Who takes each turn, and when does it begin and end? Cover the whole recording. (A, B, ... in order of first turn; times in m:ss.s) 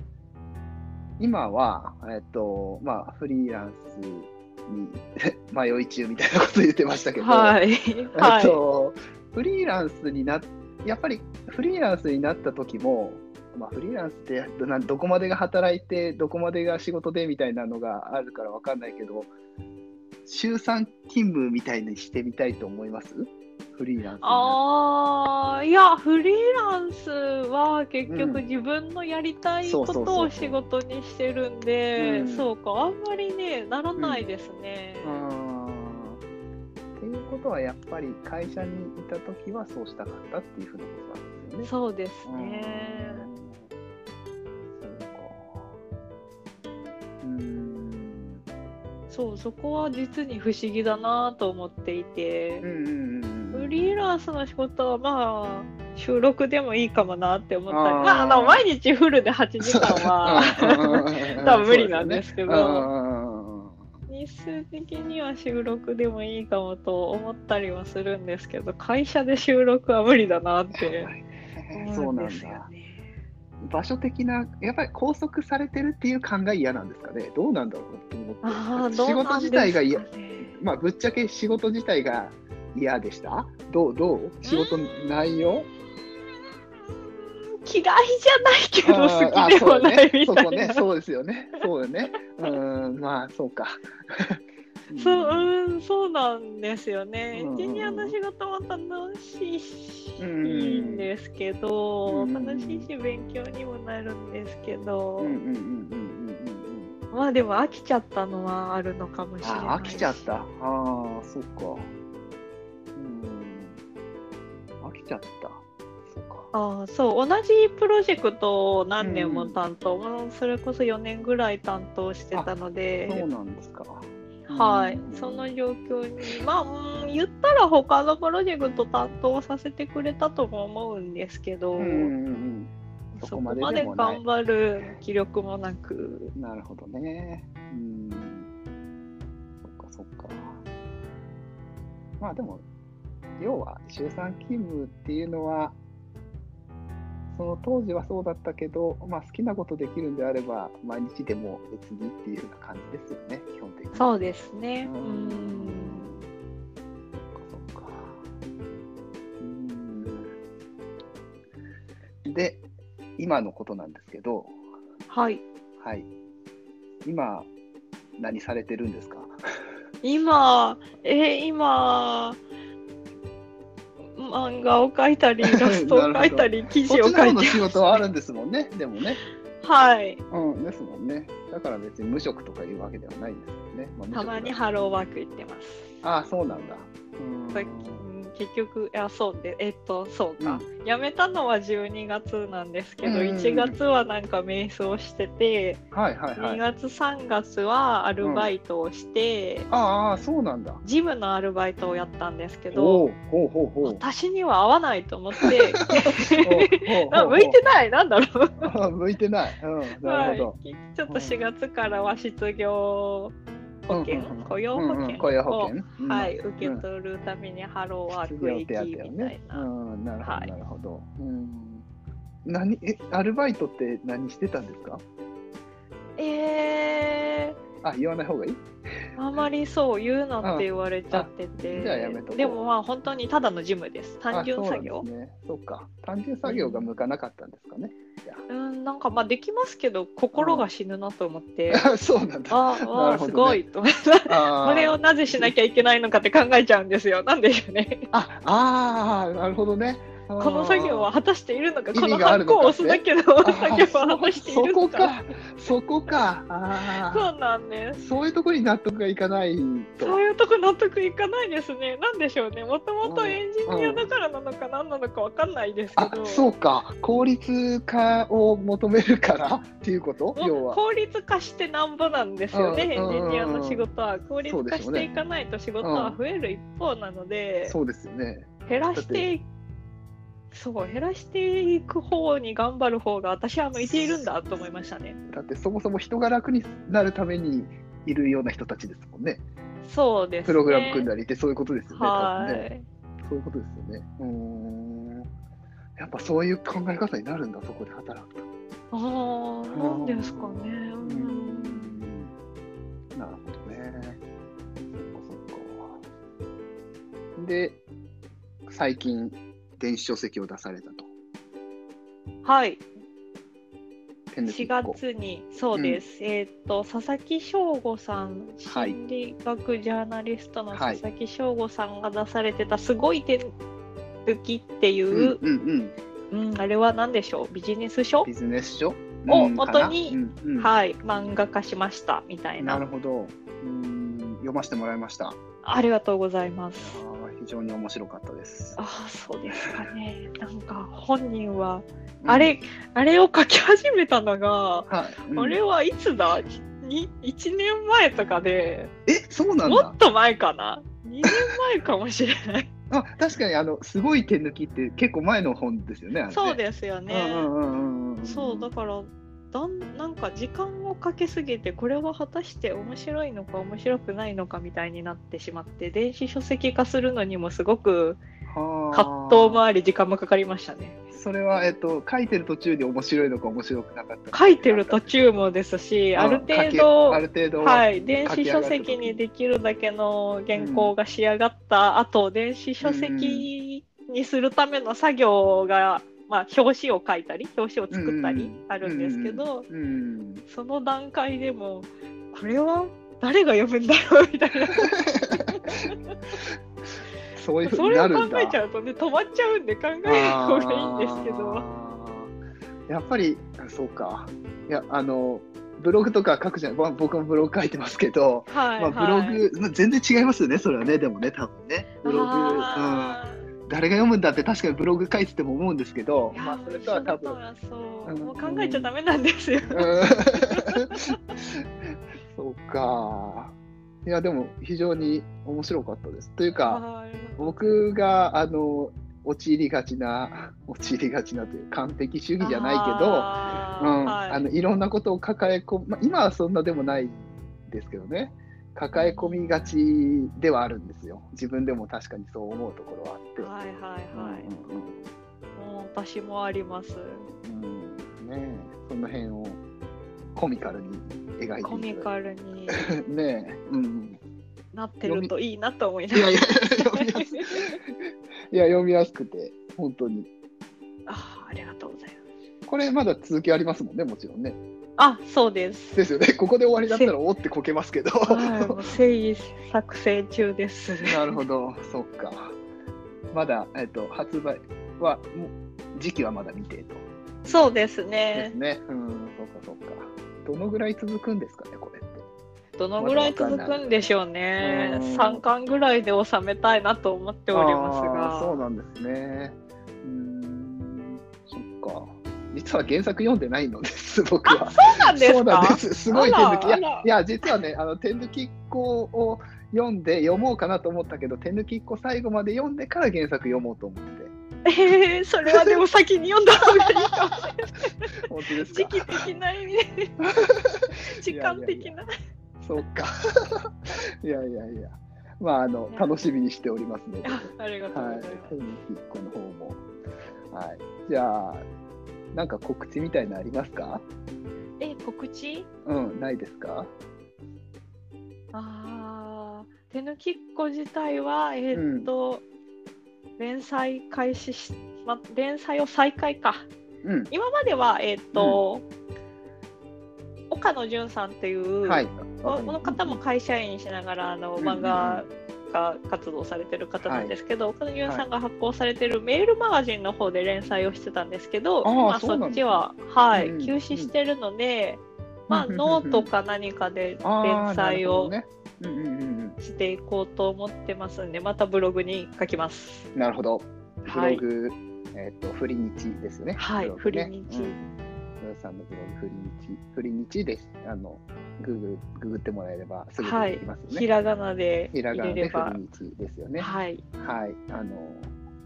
0:01.2-0:07.6 A
0:07.2-0:08.6 B
0:08.1-0:19.3 A
0:20.2-0:24.6 A
0:24.2-0:35.2 B
0:28.1-0:28.4 A
0:29.6-0:30.6 A
0:32.0-0:32.5 A
0:34.0-0:34.3 A
0:35.0-0:36.2 A
0:37.0-0:41.7 A
0:41.6-0:43.2 B
0:42.2-0:43.7 A
0:44.7-0:45.7 A
0:47.2-0:48.4 A
0:49.1-0:52.6 B
0:52.6-0:54.0 A
0:53.5-1:02.9 B
0:57.7-0:58.6 A
0:59.7-1:03.8 A
1:04.1-1:11.1 B
1:10.7-1:12.7 A
1:11.7-1:13.0 B
1:13.6-1:25.7 A
1:18.4-1:20.6 B
1:24.4-1:25.0 B
1:27.6-1:30.8 B
1:28.8-1:35.5 A
1:34.9-1:45.4 B
1:37.3-1:38.2 A
1:40.2-1:41.1 A
1:42.1-1:42.9 A
1:45.2-1:46.9 A
1:47.1-1:50.4 B
1:49.4-1:51.9 A
1:53.0-1:53.8 A
1:54.8-1:56.5 A
1:56.5-2:03.2 B
1:59.0-1:59.6 A
2:03.1-2:05.5 A
2:04.5-2:12.1 B
2:11.8-2:14.2 A
2:13.2-2:16.3 B
2:16.3-2:18.5 A
2:19.6-2:20.6 A
2:22.2-2:22.6 A
2:23.4-2:25.8 A
2:27.3-2:34.3 A
2:33.9-2:36.1 B
2:34.8-2:36.3 A
2:37.2-2:38.2 A
2:39.4-2:40.3 A
2:42.2-2:42.6 A
2:43.2-2:44.6 A
2:45.1-2:45.4 B
2:45.8-2:46.1 A
2:47.0-2:47.5 A
2:48.2-2:49.3 A
2:50.0-2:52.4 B
2:54.1-2:58.0 B
2:55.4-2:59.2 A
2:59.6-3:00.2 B
3:00.3-3:04.6 A
3:04.1-3:05.9 B
3:06.0-3:08.0 A
3:06.4-3:06.7 B
3:07.5-3:15.8 B
3:10.4-3:10.6 A
3:13.0-3:13.8 A
3:15.9-3:16.6 A
3:16.4-3:19.7 B
3:18.2-3:18.5 A
3:19.7-3:20.8 A
3:20.8-3:23.1 B
3:22.7-3:24.0 A
3:23.8-3:28.7 B
3:26.4-3:27.6 A
3:28.6-3:30.6 A
3:30.0-3:33.3 B
3:31.1-3:31.4 A
3:33.9-3:39.7 B
3:33.9-3:36.8 A
3:38.1-3:41.8 A
3:40.2-3:40.5 B
3:42.4-3:45.0 A
3:46.2-3:47.6 B
3:47.8-3:48.6 A
3:49.2-3:55.1 B
3:50.4-3:52.6 A
3:54.3-3:58.4 A
3:56.4-3:56.9 B
3:58.5-4:01.9 B
4:00.3-4:00.6 A
4:01.7-4:03.6 A
4:02.5-4:08.0 B
4:04.3-4:05.5 A
4:08.1-4:11.1 A
4:10.4-4:15.1 B
4:11.9-4:17.3 A
4:16.9-4:18.0 B
4:18.0-4:20.2 A
4:20.0-4:26.5 B
4:23.0-4:24.1 A
4:26.0-4:30.8 A
4:30.4-4:37.7 B
4:32.5-4:33.9 A
4:34.4-4:35.1 A
4:35.8-4:36.2 A
4:37.6-4:39.3 A
4:38.7-4:39.4 B
4:40.5-4:45.2 B
4:45.3-4:49.4 A
4:49.8-4:51.1 B
4:50.4-4:52.7 A
4:51.9-4:52.8 B
4:53.2-4:55.3 A
4:56.0-4:58.4 A
4:58.9-5:02.0 B
4:59.7-5:02.3 A
5:03.1-5:04.2 A
5:04.9-5:06.0 A
5:07.4-5:07.8 A
5:08.7-5:11.1 A
5:12.4-5:12.8 B
5:14.3-5:15.0 A
5:14.4-5:23.5 B
5:15.7-5:16.0 A
5:18.6-5:19.0 A
5:20.7-5:21.0 A
5:24.2-5:25.4 B
5:25.1-5:25.9 A
5:26.3-5:28.3 B
5:28.2-5:30.7 A
5:29.3-5:32.8 B
5:32.6-5:35.4 A
5:35.6-5:37.0 B
5:36.8-5:38.8 A
5:38.8-5:48.9 B
5:42.2-5:42.6 A
5:44.9-5:45.6 A
5:49.1-5:50.0 A
5:49.6-5:52.7 B
5:52.9-5:58.7 A
5:56.3-5:57.5 B
5:58.2-6:08.2 B
6:08.5-6:09.6 A
6:08.9-6:11.0 B
6:11.1-6:15.4 A
6:14.3-6:29.7 B
6:16.2-6:19.2 A
6:20.5-6:20.9 A
6:22.8-6:23.5 A
6:27.9-6:30.4 A
6:30.4-6:36.2 B
6:34.7-6:35.5 A
6:37.3-6:38.6 A
6:37.6-6:41.6 B
6:40.0-6:42.3 A
6:42.9-6:57.4 A
6:48.5-6:49.4 B
6:52.0-6:53.4 B
6:56.3-7:01.0 B
6:58.0-6:58.9 A
6:59.7-7:01.5 A
7:02.3-7:03.5 A
7:04.0-7:06.8 A
7:06.6-7:07.8 B
7:07.4-7:23.5 A
7:12.4-7:14.5 B
7:18.9-7:19.7 B
7:23.4-7:24.5 B
7:24.1-7:25.0 A
7:25.6-7:27.3 B
7:27.4-7:29.6 A
7:30.3-7:32.1 A
7:31.6-7:32.9 B
7:32.7-7:34.2 A
7:34.7-7:37.7 B
7:35.0-7:35.3 A
7:36.1-7:37.9 A
7:38.5-7:40.3 A
7:41.1-7:42.2 B
7:42.6-7:44.6 A
7:45.0-7:46.0 B
7:45.9-7:48.9 A
7:46.9-7:47.1 B
7:48.2-7:51.4 B
7:51.0-7:52.6 A
7:53.3-7:57.6 A
7:57.4-7:58.5 B
7:58.3-8:02.3 A
8:02.8-8:08.6 B
8:03.0-8:03.8 A
8:04.6-8:05.4 A
8:07.5-8:24.3 A
8:14.4-8:17.5 B
8:24.6-8:28.2 B
8:25.5-8:25.8 A
8:28.3-8:29.3 A
8:28.7-8:30.1 B
8:30.4-8:32.0 A
8:31.1-8:32.1 B
8:32.6-8:39.8 A
8:37.2-8:38.6 B
8:40.5-8:41.6 A
8:42.3-8:44.0 A
8:44.8-8:45.7 B
8:45.8-8:46.9 A
8:48.5-8:52.4 B
8:51.7-8:52.1 A
8:53.4-8:56.7 B
8:57.0-8:57.3 A
8:57.3-8:58.8 B
8:58.3-8:58.6 A
9:00.5-9:18.3 B
9:01.8-9:03.2 A
9:04.6-9:05.3 A
9:07.0-9:07.4 A
9:11.8-9:14.1 A
9:15.5-9:16.3 A
9:17.2-9:19.6 A
9:19.6-9:23.1 B
9:23.1-9:27.7 A
9:24.0-9:24.4 B
9:26.6-9:27.8 B
9:28.4-9:34.1 A
9:33.2-9:35.8 B
9:34.9-9:38.3 A
9:36.6-9:37.0 B